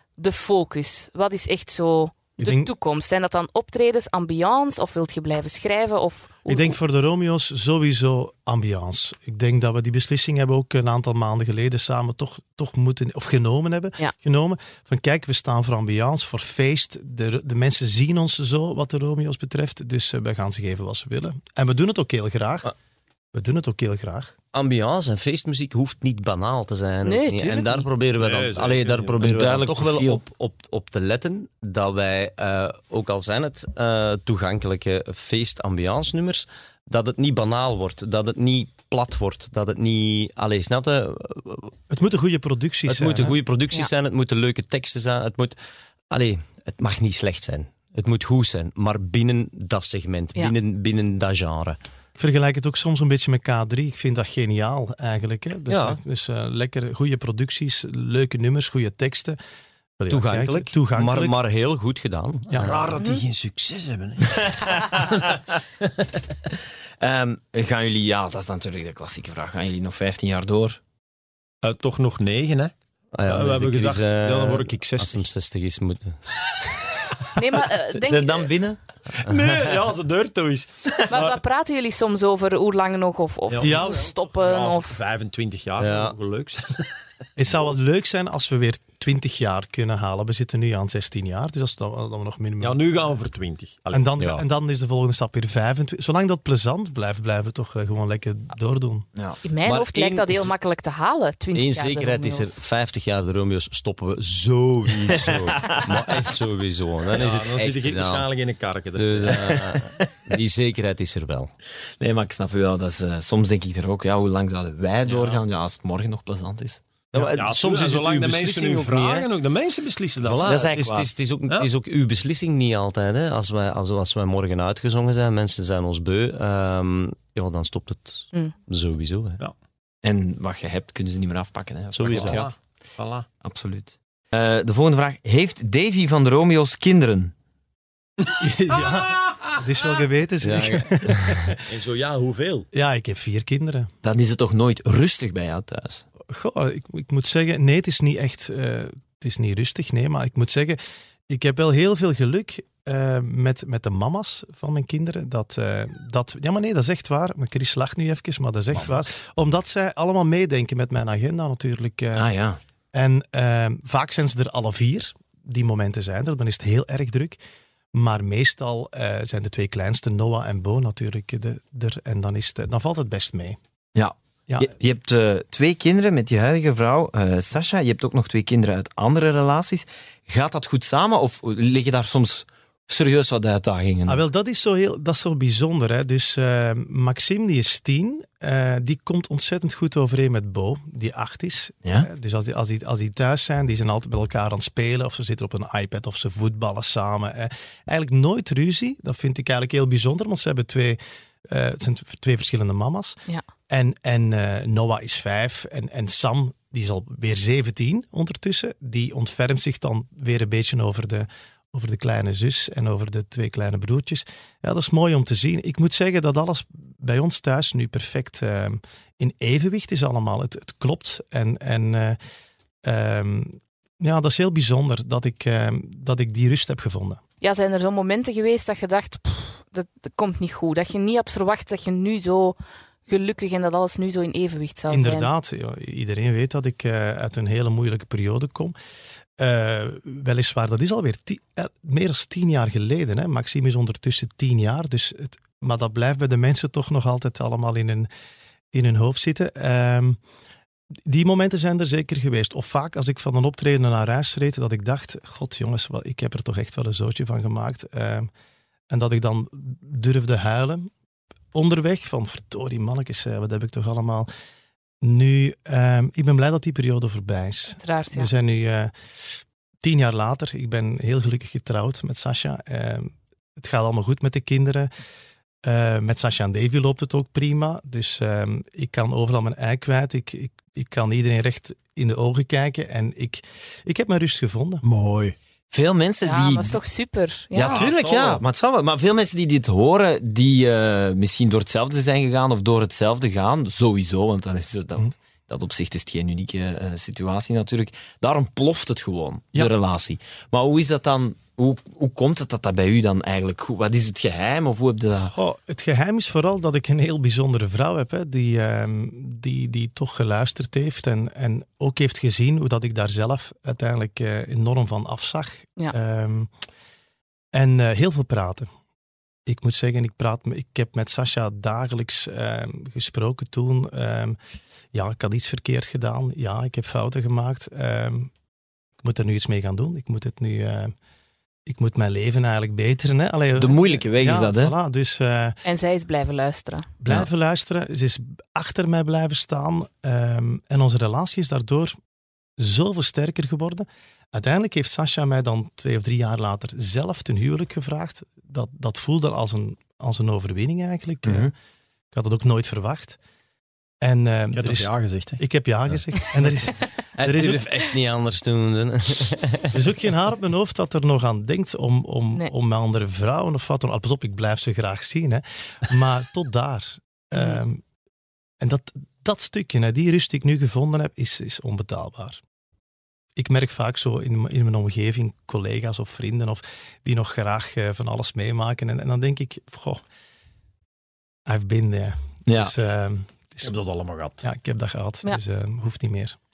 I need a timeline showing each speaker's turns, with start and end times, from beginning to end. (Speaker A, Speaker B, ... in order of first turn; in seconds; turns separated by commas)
Speaker A: 0.2-6.8, Speaker B: 2.4-2.7, Speaker B: 6.5-22.7, Speaker B: 23.3-24.3, Speaker C: 24.5-41.7, Speaker A: 27.0-27.9, Speaker D: 28.2-29.2, Speaker E: 29.2-30.2, Speaker B: 41.9-43.4, Speaker C: 42.9-45.6, Speaker C: 46.1-51.8, Speaker B: 52.2-59.4, Speaker C: 55.7-56.0, Speaker B: 60.0-61.4, Speaker C: 60.1-63.0, Speaker D: 62.6-65.3, Speaker E: 64.4-65.3, Speaker E: 67.0-70.8, Speaker D: 71.6-72.7, Speaker C: 73.1-76.2, Speaker D: 73.3-75.2, Speaker A: 77.3-78.5, Speaker E: 77.7-78.8, Speaker D: 79.2-81.4, Speaker A: 81.1-85.0, Speaker D: 83.5-86.9, Speaker B: 83.6-84.1, Speaker C: 85.8-86.2, Speaker B: 87.4-92.8, Speaker D: 92.6-94.2, Speaker B: 93.9-99.1, Speaker C: 94.2-94.4, Speaker E: 99.1-99.4, Speaker A: 99.4-102.6, Speaker C: 99.6-100.5, Speaker C: 101.5-108.3, Speaker E: 105.1-105.9, Speaker D: 107.1-109.6, Speaker C: 109.0-111.5, Speaker E: 109.6-110.1, Speaker E: 112.0-116.8, Speaker D: 115.0-115.4, Speaker C: 117.1-119.3, Speaker D: 117.1-120.7, Speaker C: 120.2-129.4, Speaker E: 120.4-121.1, Speaker E: 130.0-132.5, Speaker C: 131.9-132.4, Speaker D: 132.1-133.3, Speaker E: 133.4-137.3, Speaker B: 138.4-141.6, Speaker C: 140.4-141.5, Speaker D: 141.7-142.7, Speaker B: 142.7-143.9, Speaker E: 144.0-146.0, Speaker B: 146.3-162.3, Speaker E: 162.1-162.6, Speaker B: 162.9-167.4, Speaker B: 167.9-173.6, Speaker E: 173.9-184.2, Speaker B: 184.1-203.2, Speaker B: 203.7-222.2, Speaker B: 222.8-227.2, Speaker A: 227.4-232.6, Speaker A: 233.1-235.3, Speaker B: 234.9-238.7, Speaker B: 239.4-248.1, Speaker B: 248.7-250.2, Speaker B: 251.1-258.3, Speaker B: 258.9-260.9, Speaker B: 261.5-264.3, Speaker B: 265.0-274.9, Speaker A: 267.7-268.3, Speaker B: 275.6-284.8, Speaker D: 284.8-285.3, Speaker E: 285.7-286.8, Speaker A: 286.2-287.8, Speaker E: 287.5-305.3, Speaker D: 287.6-288.4, Speaker B: 305.3-316.5, Speaker B: 317.5-318.7, Speaker B: 319.4-324.4, Speaker B: 324.9-328.3, Speaker B: 329.0-330.9, Speaker B: 331.6-335.6, Speaker E: 333.6-334.8, Speaker A: 335.6-336.9, Speaker B: 337.0-341.9, Speaker B: 342.6-351.5, Speaker E: 351.2-351.5, Speaker B: 352.1-353.2, Speaker B: 354.0-357.6, Speaker D: 354.5-355.4, Speaker C: 357.1-359.8, Speaker B: 359.7-367.8, Speaker A: 367.4-367.6, Speaker B: 368.6-372.4, Speaker B: 373.4-380.0, Speaker B: 381.4-383.7, Speaker E: 382.4-382.8, Speaker D: 383.6-384.4, Speaker B: 384.4-386.4